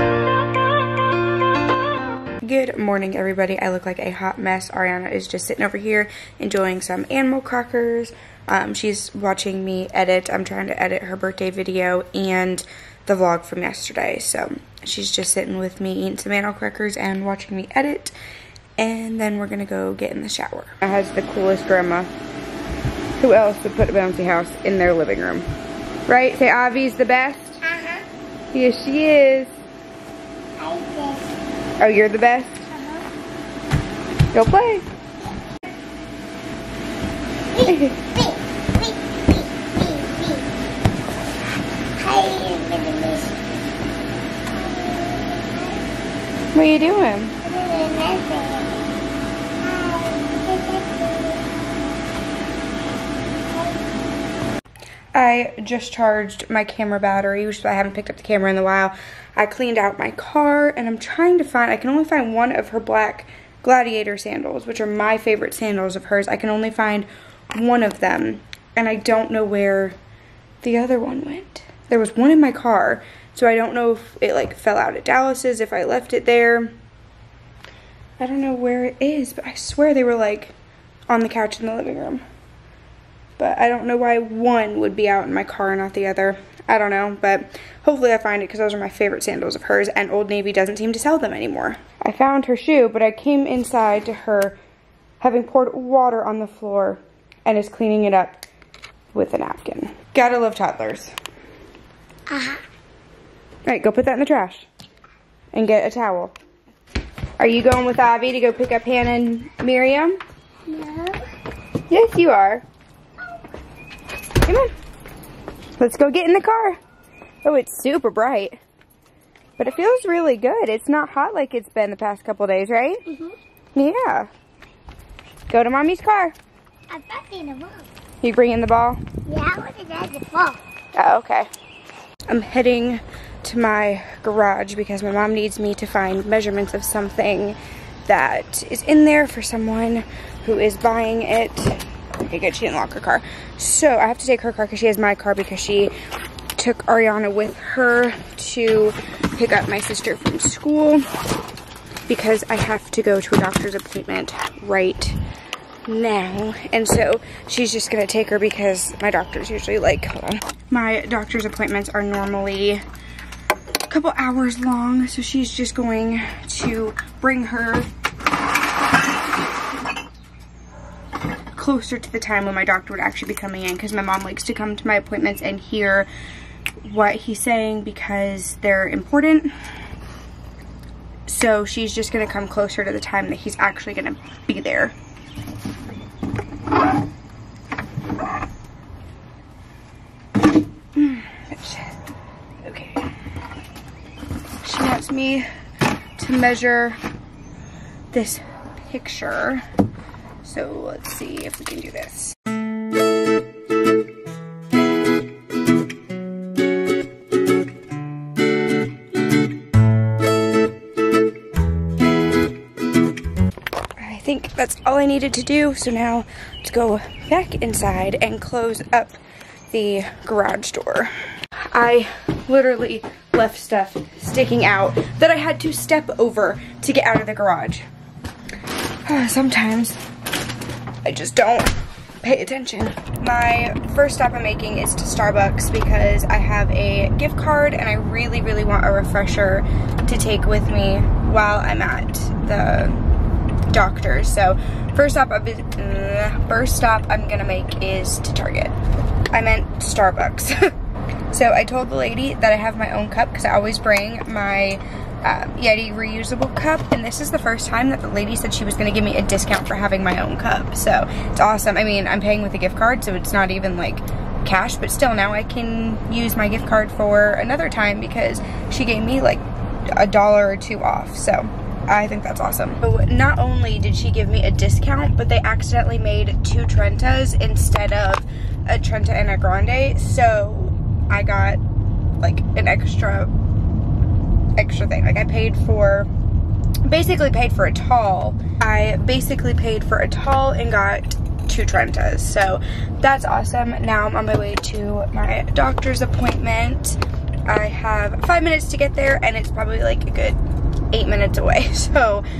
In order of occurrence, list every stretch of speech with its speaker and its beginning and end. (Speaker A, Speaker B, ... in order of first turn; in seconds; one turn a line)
Speaker A: 2.4-18.1
Speaker A: 18.8-22.1
Speaker A: 23.2-25.5
Speaker A: 26.1-27.6
Speaker B: 27.6-28.0
Speaker A: 28.5-29.6
Speaker B: 30.6-31.3
Speaker A: 31.8-32.7
Speaker B: 32.7-33.0
Speaker A: 34.3-34.9
Speaker B: 37.5-40.5
Speaker A: 37.7-38.0
Speaker B: 42.0-43.3
Speaker B: 44.5-45.8
Speaker A: 46.5-47.4
Speaker B: 47.4-48.9
Speaker B: 49.6-51.5
Speaker B: 53.5-53.8
Speaker A: 55.1-70.0
Speaker A: 70.6-76.8
Speaker A: 78.2-80.5
Speaker A: 81.1-82.2
Speaker A: 83.4-94.6
Speaker A: 95.2-98.4
Speaker A: 99.1-101.1
Speaker B: 102.3-102.6
Speaker A: 103.7-104.7
Speaker A: 105.5-106.3
Speaker A: 107.4-110.2
Speaker B: 110.7-111.2
Speaker A: 111.9-112.6
Speaker A: 114.4-114.7
Speaker A: 115.8-116.8
Speaker A: 117.4-118.6
Speaker A: 119.6-123.0
Speaker B: 123.1-123.3
Speaker A: 123.8-124.3
Speaker A: 125.5-126.3
Speaker B: 126.9-127.9
Speaker A: 128.2-129.0
Speaker B: 129.2-130.6
Speaker A: 130.9-131.5
Speaker A: 132.3-145.9
Speaker A: 146.6-151.1
Speaker A: 152.1-155.2
Speaker A: 155.8-162.8
Speaker A: 163.9-167.9
Speaker A: 171.6-176.1
Speaker A: 176.8-179.5
Speaker A: 181.3-184.9
Speaker A: 190.9-193.1
Speaker A: 194.6-195.5
Speaker A: 196.2-197.0
Speaker A: 198.1-199.6
Speaker A: 200.4-202.3
Speaker A: 214.0-219.2
Speaker A: 219.7-221.1
Speaker A: 221.7-227.8
Speaker A: 229.1-230.0
Speaker A: 231.0-243.0
Speaker A: 243.7-248.8
Speaker A: 249.3-250.7
Speaker A: 251.3-281.6
Speaker A: 282.2-283.3
Speaker A: 284.6-286.1
Speaker A: 286.9-300.4
Speaker A: 300.9-302.2